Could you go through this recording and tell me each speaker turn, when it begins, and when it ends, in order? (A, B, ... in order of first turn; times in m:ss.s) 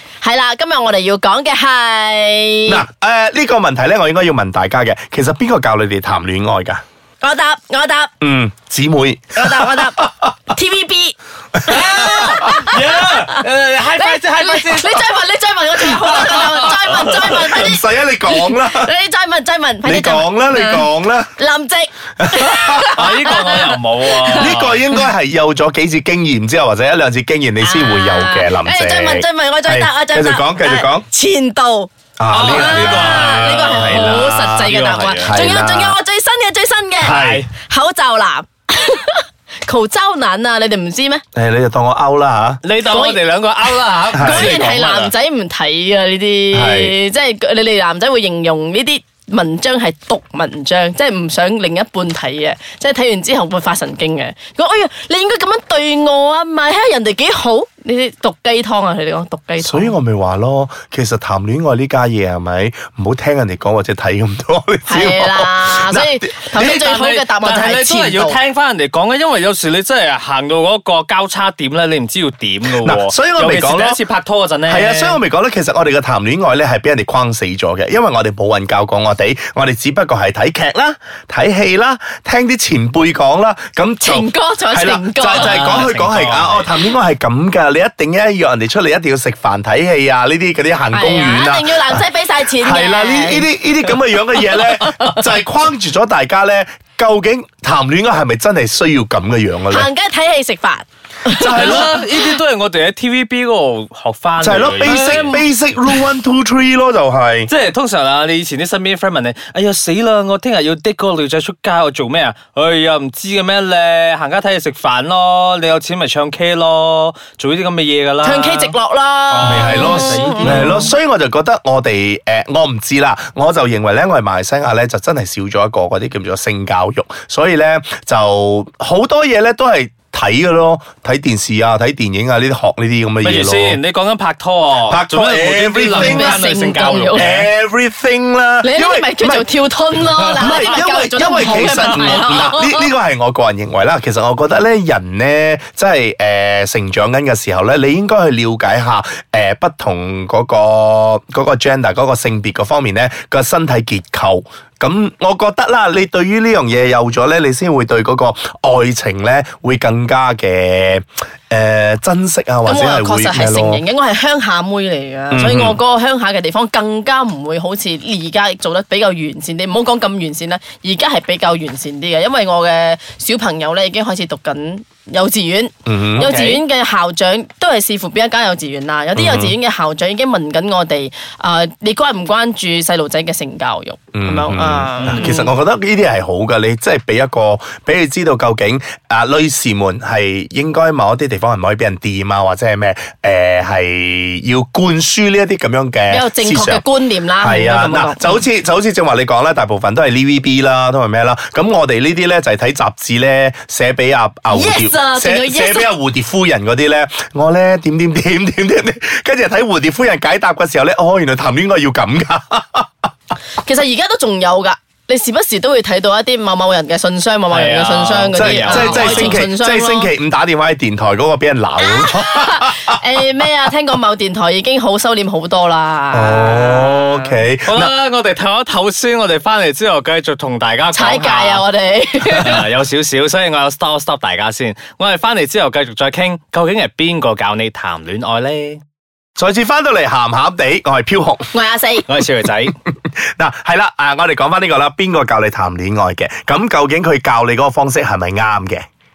0:00.2-0:02.8 A
0:02.7-0:06.8 B
0:07.2-0:08.1 A
0:08.2-0:10.3 B
0:09.4-0:25.0 A
0:11.6-0:12.7 B
0:11.7-0:15.0 C
0:16.1-0:18.9 B
0:16.1-0:17.0 C
0:19.8-0:21.3 B
0:22.2-0:23.4 B
0:23.0-0:24.8 C
0:24.2-0:31.1 B
0:27.6-0:31.9 A
0:32.2-0:36.0 B
0:32.3-0:35.3 C
0:32.4-0:41.2 A
0:37.0-0:37.4 B
0:37.0-0:37.5 C
0:41.3-0:42.6 B
0:42.6-0:45.1 C
0:42.8-0:43.2 A
0:44.1-0:59.9 A
0:44.1-0:44.6 B
0:46.5-0:47.0 B
0:59.6-1:06.6 B
1:04.9-1:08.4 A
1:06.5-1:15.2 C
1:12.7-1:14.0 B
1:14.7-1:39.9 B
1:24.0-1:25.8 A
1:25.2-1:26.7 C
1:30.9-1:33.5 A
1:39.7-1:42.1 A
1:41.3-1:42.0 B
1:41.4-1:45.4 C
1:44.4-1:47.5 B
1:44.8-1:45.4 A
1:47.5-1:58.7 C
1:58.2-2:00.9 A
1:59.3-2:00.9 C
1:59.4-2:13.8 B
2:13.2-2:17.5 C
2:14.9-2:16.4 B
2:15.9-2:17.3 A
2:17.1-2:19.5 B
2:18.6-2:22.9 A
2:20.0-2:43.8 B
2:42.7-3:05.5 A
2:45.3-2:45.8 B
2:55.9-2:56.3 B
2:56.2-2:56.6 C
2:59.1-2:59.6 B
3:04.1-3:16.8 B
3:05.0-3:05.4 C
3:16.1-3:18.4 A
3:17.4-3:32.9 B
3:24.5-3:25.9 A
3:33.6-3:40.1 A
3:37.5-3:39.4 C
3:38.3-3:43.0 B
3:41.8-3:47.4 A
3:46.1-3:47.9 B
3:47.7-3:51.6 C
3:50.9-3:52.6 A
3:52.3-3:58.8 C
3:59.4-4:01.5 B
4:01.5-4:02.1 A
4:02.1-4:02.7 C
4:02.9-4:08.8 B